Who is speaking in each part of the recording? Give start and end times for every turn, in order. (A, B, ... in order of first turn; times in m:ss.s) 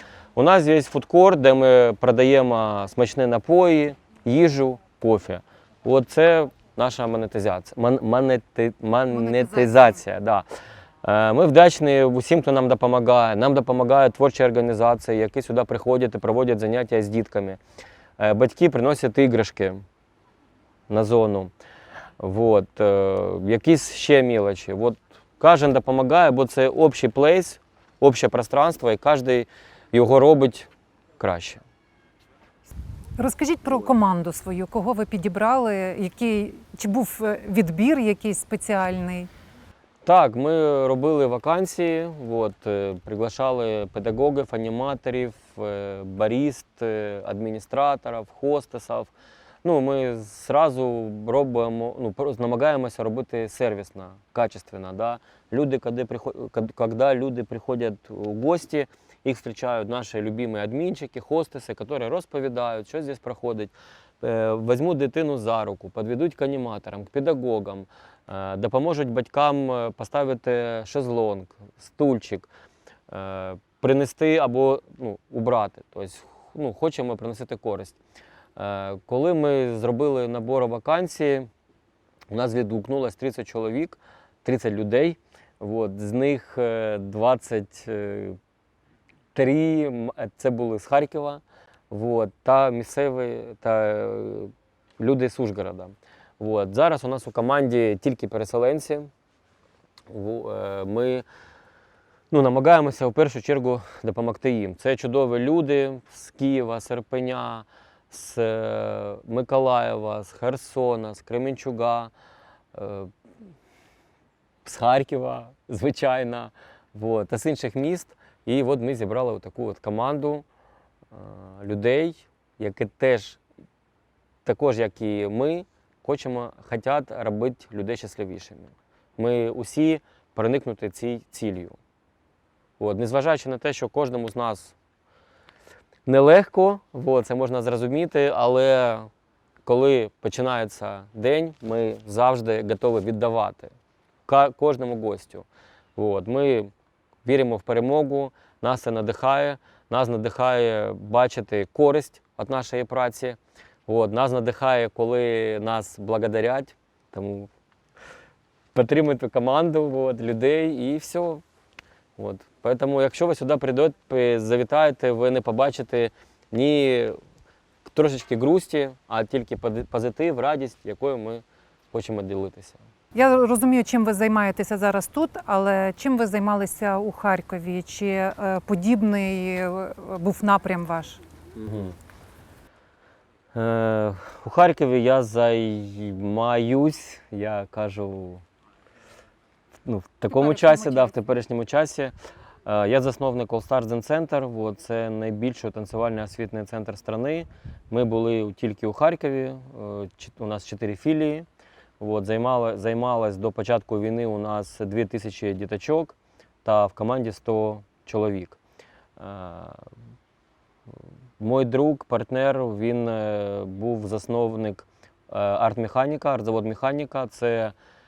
0:00.4-0:10.4 A
0:09.4-0:09.7 B
0:11.0-0:17.6 A
0:18.2-0:19.8 A
0:20.9-0:21.5 A
0:22.2-0:30.7 A
0:31.2-0:31.6 A
0:33.2-0:39.3 B
0:40.0-0:49.1 A
0:49.6-1:12.5 A
1:13.1-1:18.0 A
1:18.6-1:21.5 A
1:22.3-1:28.4 A
1:29.3-1:39.1 A
1:40.1-1:41.2 A
1:42.3-1:52.1 A
1:52.7-1:53.1 A
1:54.6-2:00.4 A
2:01.1-2:03.4 A
2:04.4-2:11.8 A
2:12.8-2:14.8 A
2:16.0-2:19.1 A
2:19.6-2:23.7 A
2:24.3-2:26.7 A
2:27.2-2:37.5 A
2:38.7-2:41.4 A
2:42.2-2:47.2 A
2:47.8-2:52.8 A
2:53.1-3:01.2 B
3:01.6-3:01.9 A
3:03.5-3:08.4 A
3:09.8-3:12.1 A
3:10.3-3:11.1 B
3:12.6-3:21.5 A
3:22.0-3:28.6 A
3:29.2-3:29.8 A
3:31.4-3:37.7 A